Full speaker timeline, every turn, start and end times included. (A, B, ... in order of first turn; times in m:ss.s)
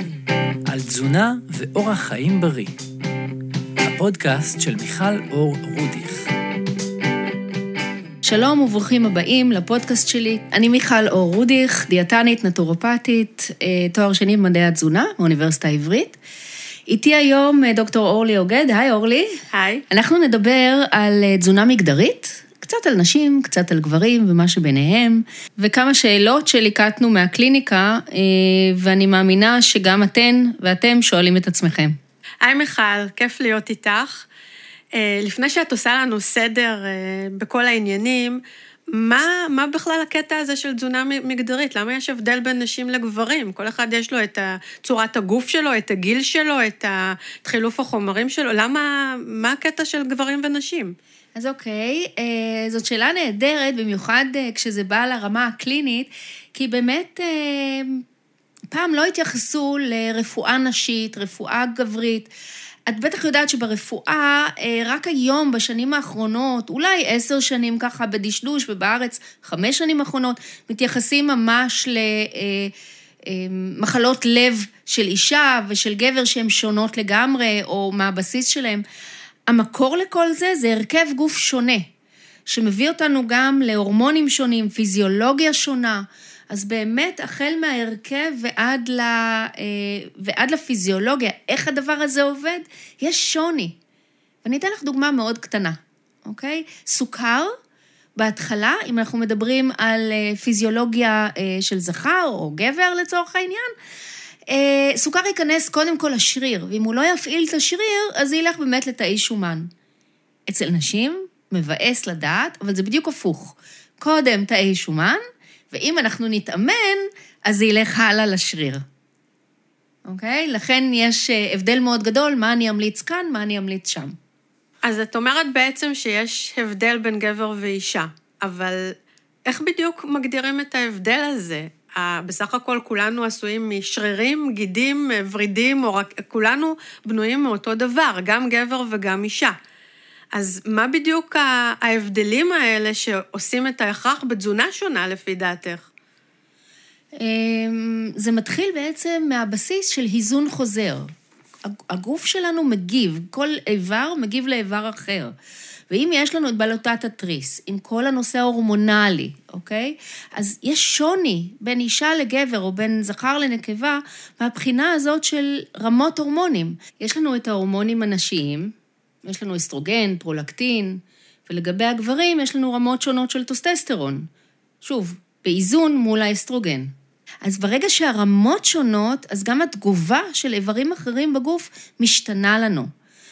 0:00.7-0:02.7 A
0:03.8-0:06.3 A
0:08.2-0:16.2 B
0:16.9-0:19.3 B
0:19.5-0:19.8 C
0:19.9-0:31.9 B
0:32.4-0:34.3 C
0:34.9-0:38.4 C
0:38.9-0:50.9 C
0:51.4-0:58.0 B
0:58.7-1:02.3 B
1:02.9-1:12.7 B
1:13.2-1:18.8 B
1:19.5-1:21.9 B
1:22.5-1:33.8 B
1:34.4-1:37.5 B
1:38.2-1:43.7 B
1:44.5-1:49.7 B
1:50.5-1:55.2 B
1:55.7-1:58.8 B
2:00.0-2:04.2 B
2:04.8-2:08.8 C
2:09.5-2:19.5 C
2:20.3-2:25.9 C
2:27.2-2:31.1 B
2:31.6-2:35.3 B
2:35.9-2:54.3 B
2:54.8-2:56.9 B
2:57.4-3:02.9 B